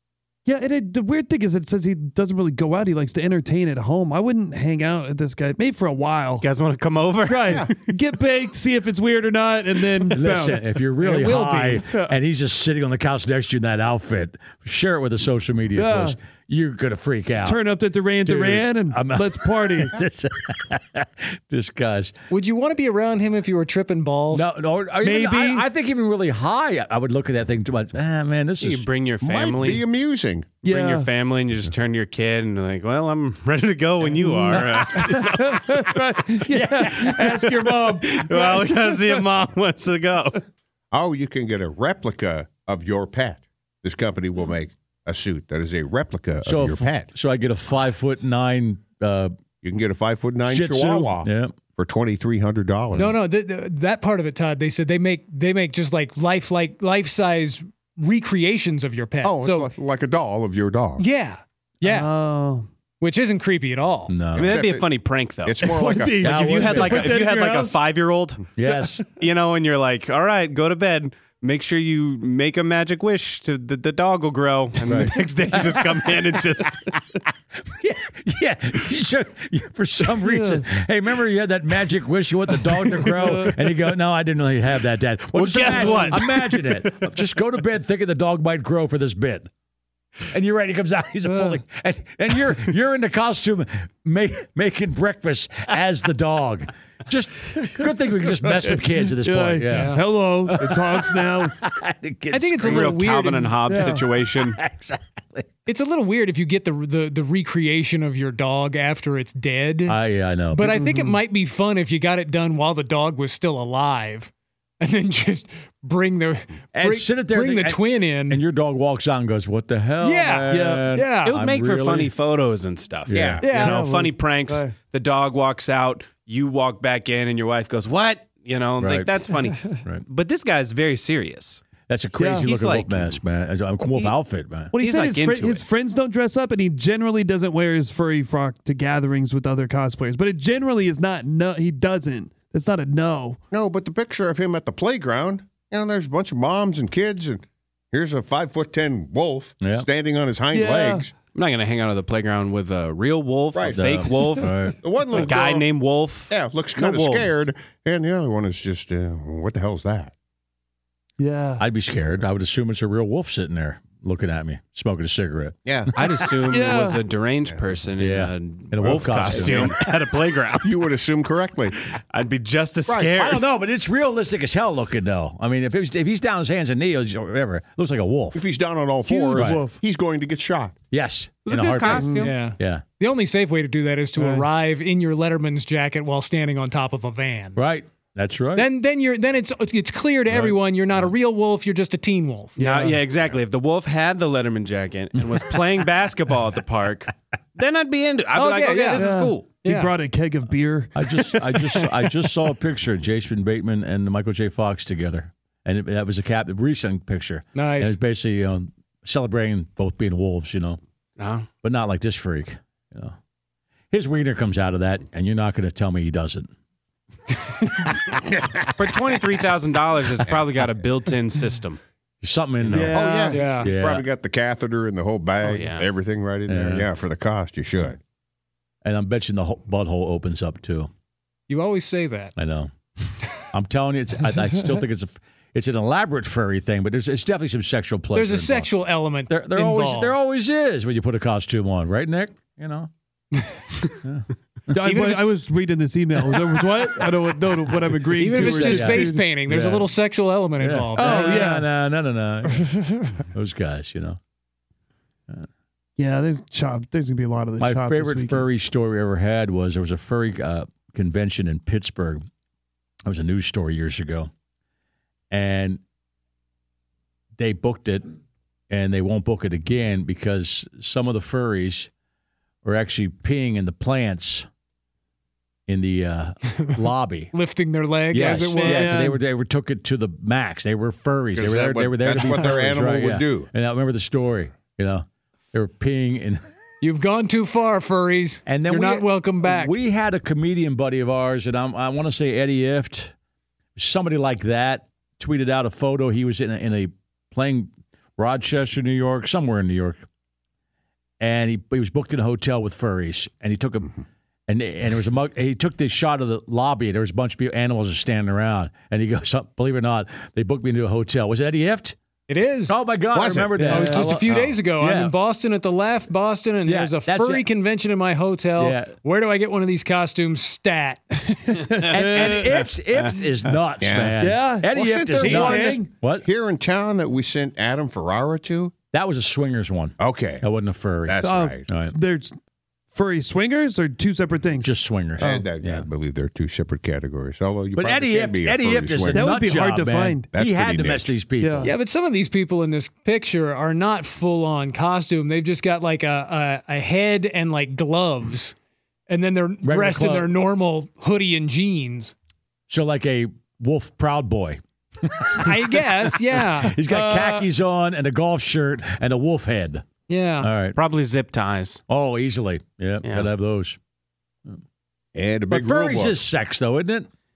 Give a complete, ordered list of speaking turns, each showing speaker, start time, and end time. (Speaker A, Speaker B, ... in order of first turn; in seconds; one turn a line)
Speaker A: 0.5-6.5
Speaker B: 6.4-7.8
Speaker A: 7.3-11.3
Speaker C: 7.5-7.7
Speaker D: 10.1-17.6
Speaker E: 11.0-11.8
Speaker A: 15.8-16.2
Speaker A: 17.4-19.9
Speaker D: 18.2-22.1
Speaker E: 22.3-24.5
Speaker D: 24.3-28.9
Speaker A: 25.0-25.6
Speaker B: 28.6-29.9
Speaker C: 29.2-30.6
Speaker A: 30.6-31.1
Speaker B: 30.6-35.7
Speaker A: 34.1-39.3
Speaker D: 36.5-37.1
Speaker B: 37.0-40.4
Speaker C: 40.9-47.1
Speaker D: 46.4-49.4
Speaker C: 49.6-53.2
Speaker D: 50.5-51.5
Speaker E: 53.0-59.7
Speaker C: 59.2-61.0
Speaker E: 61.0-62.1
Speaker A: 61.8-62.7
Speaker E: 63.0-64.1
Speaker D: 64.1-64.6
Speaker C: 64.3-64.9
Speaker B: 64.4-68.5
Speaker C: 65.4-67.0
Speaker A: 65.6-67.8
Speaker D: 66.2-67.2
Speaker D: 68.6-69.0
Speaker B: 69.2-76.9
Speaker D: 74.8-76.1
Speaker D: 77.6-89.5
Speaker A: 80.2-80.7
Speaker A: 83.0-83.6
Speaker B: 85.3-87.1
Speaker A: 85.6-86.2
Speaker D: 90.3-103.0
Speaker A: 91.3-91.6
Speaker A: 98.5-101.6
Speaker E: 99.7-100.0
Speaker E: 102.3-103.6
Speaker B: 102.6-104.6
Speaker A: 103.7-104.0
Speaker D: 104.3-105.5
Speaker E: 105.7-110.0
Speaker D: 109.9-110.8
Speaker E: 110.5-118.4
Speaker A: 110.8-111.2
Speaker D: 116.7-122.1
Speaker E: 120.0-121.3
Speaker A: 120.5-120.9
Speaker B: 121.3-131.6
Speaker D: 123.1-123.4
Speaker C: 123.1-123.5
Speaker E: 123.4-123.8
Speaker A: 123.5-124.7
Speaker D: 128.8-129.1
Speaker D: 131.9-134.7
Speaker A: 132.2-132.5
Speaker B: 132.4-133.2
Speaker A: 134.7-143.4
Speaker B: 134.8-135.7
Speaker C: 143.5-151.1
Speaker D: 149.6-149.9
Speaker A: 150.5-151.1
Speaker B: 151.3-154.5
Speaker C: 153.5-155.7
Speaker D: 153.7-154.8
Speaker B: 155.1-157.4
Speaker C: 156.3-160.1
Speaker A: 161.2-161.6
Speaker D: 161.6-165.6
Speaker C: 165.7-165.9
Speaker B: 166.0-170.9
Speaker A: 166.5-167.0
Speaker D: 168.0-169.8
Speaker C: 168.8-169.8
Speaker C: 170.6-171.8
Speaker B: 171.9-173.4
Speaker C: 172.9-173.3
Speaker D: 173.2-178.4
Speaker C: 178.3-180.8
Speaker A: 179.1-179.8
Speaker D: 179.3-179.6
Speaker D: 180.9-182.8
Speaker B: 181.5-182.3
Speaker A: 181.9-182.3
Speaker E: 182.2-187.6
Speaker A: 184.2-184.5
Speaker D: 187.6-188.7
Speaker E: 188.6-192.6
Speaker D: 190.3-191.1
Speaker A: 192.6-193.0
Speaker B: 192.6-199.5
Speaker E: 198.3-199.9
Speaker A: 199.0-201.1
Speaker D: 200.9-210.8
Speaker E: 207.6-208.0
Speaker B: 211.2-211.5
Speaker D: 211.6-213.2
Speaker D: 213.9-216.5
Speaker C: 218.2-218.7
Speaker B: 218.8-221.8
Speaker D: 222.2-224.1
Speaker A: 222.7-223.6
Speaker C: 222.8-228.0
Speaker E: 223.3-223.7
Speaker B: 225.4-225.9
Speaker D: 226.5-226.9
Speaker D: 228.8-230.9
Speaker E: 231.5-232.3
Speaker D: 232.4-232.7
Speaker D: 233.4-238.7
Speaker E: 238.1-240.1
Speaker D: 239.3-242.9
Speaker A: 244.7-249.3
Speaker E: 244.8-245.3
Speaker D: 247.7-249.9
Speaker E: 248.2-251.5
Speaker D: 250.6-252.7
Speaker A: 251.0-251.7
Speaker A: 252.6-253.1
Speaker D: 253.3-254.2
Speaker A: 256.0-258.4
Speaker D: 257.6-262.2
Speaker D: 263.1-264.3
Speaker D: 265.3-265.8
Speaker D: 267.4-268.1
Speaker D: 268.7-271.9
Speaker D: 272.6-274.5
Speaker D: 275.7-277.3
Speaker E: 277.3-279.1
Speaker D: 278.1-286.4
Speaker A: 278.2-279.2
Speaker C: 281.4-283.5
Speaker E: 286.8-289.8
Speaker D: 288.5-293.1
Speaker D: 293.8-300.0
Speaker D: 301.2-303.9
Speaker D: 304.5-312.0
Speaker E: 312.3-312.8
Speaker D: 312.7-315.1
Speaker C: 313.1-313.7
Speaker A: 313.6-314.0
Speaker E: 313.6-321.2
Speaker D: 316.7-317.5
Speaker D: 318.6-318.9
Speaker A: 321.4-322.7
Speaker D: 321.9-326.3
Speaker C: 323.8-328.7
Speaker A: 324.2-325.9
Speaker D: 328.9-331.9
Speaker C: 330.0-330.5
Speaker C: 331.1-331.7
Speaker A: 331.2-332.4
Speaker A: 332.9-335.5
Speaker D: 334.6-335.9
Speaker C: 335.2-339.4
Speaker D: 337.8-341.7
Speaker A: 339.1-340.3
Speaker C: 340.3-341.2
Speaker A: 341.4-341.7
Speaker E: 341.6-348.6
Speaker E: 349.1-352.1
Speaker D: 349.6-350.3
Speaker D: 352.7-359.9
Speaker E: 355.4-356.8
Speaker A: 357.0-357.3
Speaker E: 360.1-360.5
Speaker D: 360.4-360.8
Speaker B: 360.8-361.8
Speaker D: 361.9-363.8
Speaker B: 363.0-363.3
Speaker C: 365.1-366.2
Speaker D: 365.5-367.1